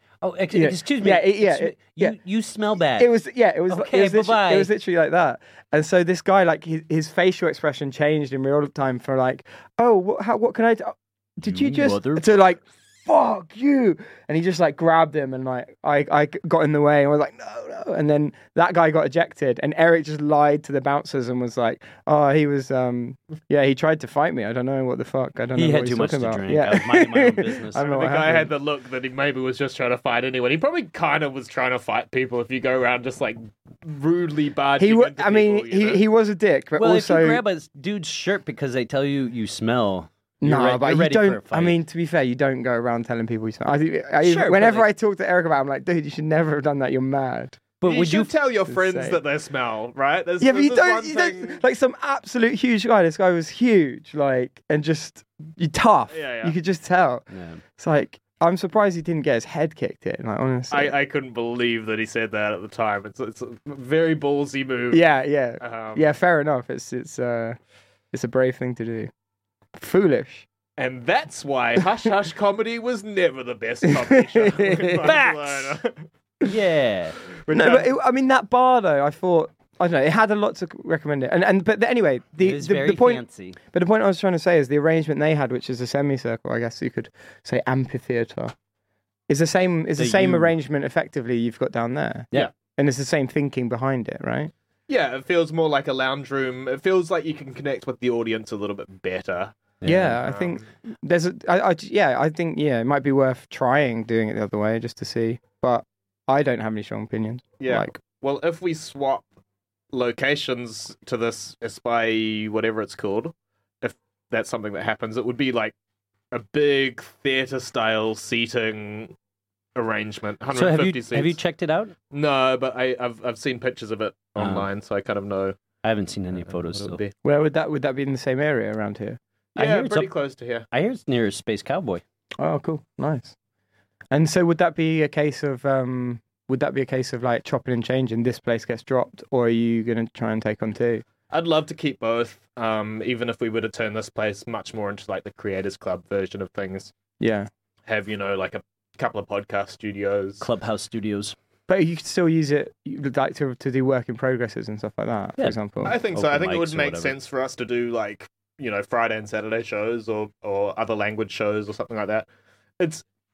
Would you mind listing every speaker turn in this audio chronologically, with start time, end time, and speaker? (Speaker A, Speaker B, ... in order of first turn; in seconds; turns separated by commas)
Speaker A: 0.2-3.1, Speaker B: 0.5-2.1, Speaker B: 3.0-28.5, Speaker A: 3.7-4.7, Speaker A: 11.4-12.3, Speaker A: 25.5-27.8, Speaker C: 27.8-36.0, Speaker B: 34.8-37.4, Speaker A: 36.8-41.8, Speaker B: 40.4-47.6, Speaker A: 44.2-44.9, Speaker A: 47.8-48.3, Speaker C: 47.8-51.6, Speaker B: 48.7-49.2, Speaker B: 50.4-60.9, Speaker C: 56.1-56.5, Speaker A: 57.3-57.6, Speaker C: 60.7-65.0, Speaker B: 64.9-67.6, Speaker C: 65.6-66.1, Speaker B: 68.1-69.1, Speaker B: 69.8-70.5, Speaker C: 70.8-76.0, Speaker B: 73.8-75.2, Speaker A: 75.0-75.5, Speaker A: 76.4-77.2, Speaker C: 77.4-77.9, Speaker B: 77.5-88.5, Speaker A: 82.4-83.6, Speaker B: 89.3-94.5, Speaker A: 90.0-90.5, Speaker C: 94.9-99.6, Speaker A: 99.8-100.2, Speaker B: 99.8-107.9, Speaker C: 100.2-100.6, Speaker C: 107.6-109.3, Speaker C: 109.9-115.7, Speaker C: 116.3-119.1, Speaker C: 119.7-121.4, Speaker A: 120.5-121.9, Speaker C: 122.1-125.5, Speaker A: 124.4-124.7, Speaker A: 125.8-127.0, Speaker C: 126.5-127.1, Speaker B: 127.2-129.2, Speaker A: 129.6-130.1, Speaker C: 129.6-130.7, Speaker A: 130.7-132.0, Speaker B: 132.4-133.3, Speaker B: 134.1-141.0, Speaker C: 141.3-146.9, Speaker B: 147.2-147.5, Speaker C: 147.9-150.4, Speaker A: 150.4-151.3, Speaker B: 151.7-155.9, Speaker A: 155.4-157.1, Speaker C: 155.8-162.2